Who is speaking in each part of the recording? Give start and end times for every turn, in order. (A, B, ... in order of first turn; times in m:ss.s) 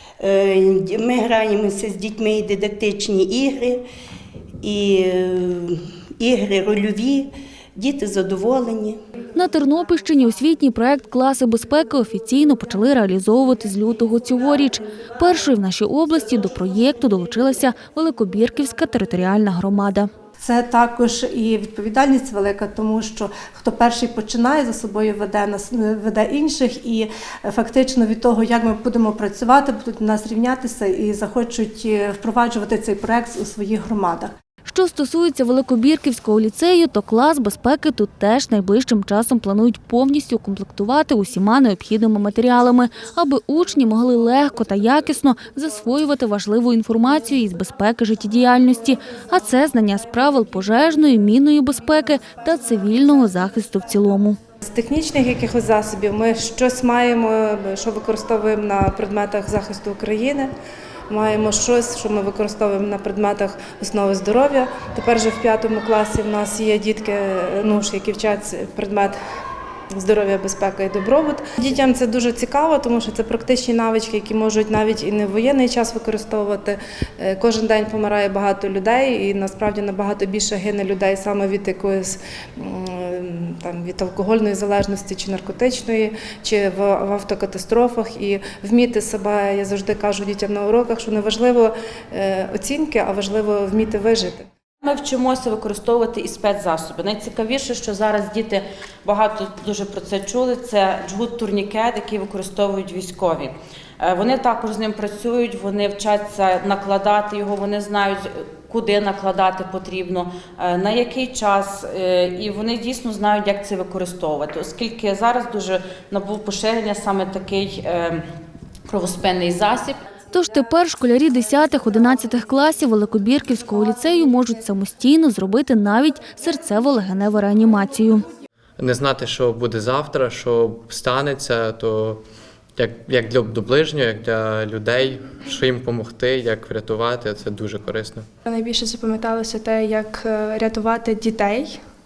0:00.2-0:03.8 A
0:04.6-0:09.0 A
0:09.4-0:20.1 B
0:20.4-0:34.3 C
0:34.7-0:54.4 B
0:54.6-1:00.5 D
1:01.1-1:09.2 D
1:10.0-1:34.5 D
1:34.8-1:58.2 E
1:58.9-2:00.0 E
2:00.3-2:08.2 B
2:08.8-2:12.2 F
2:12.8-2:18.3 F
2:18.5-2:21.7 G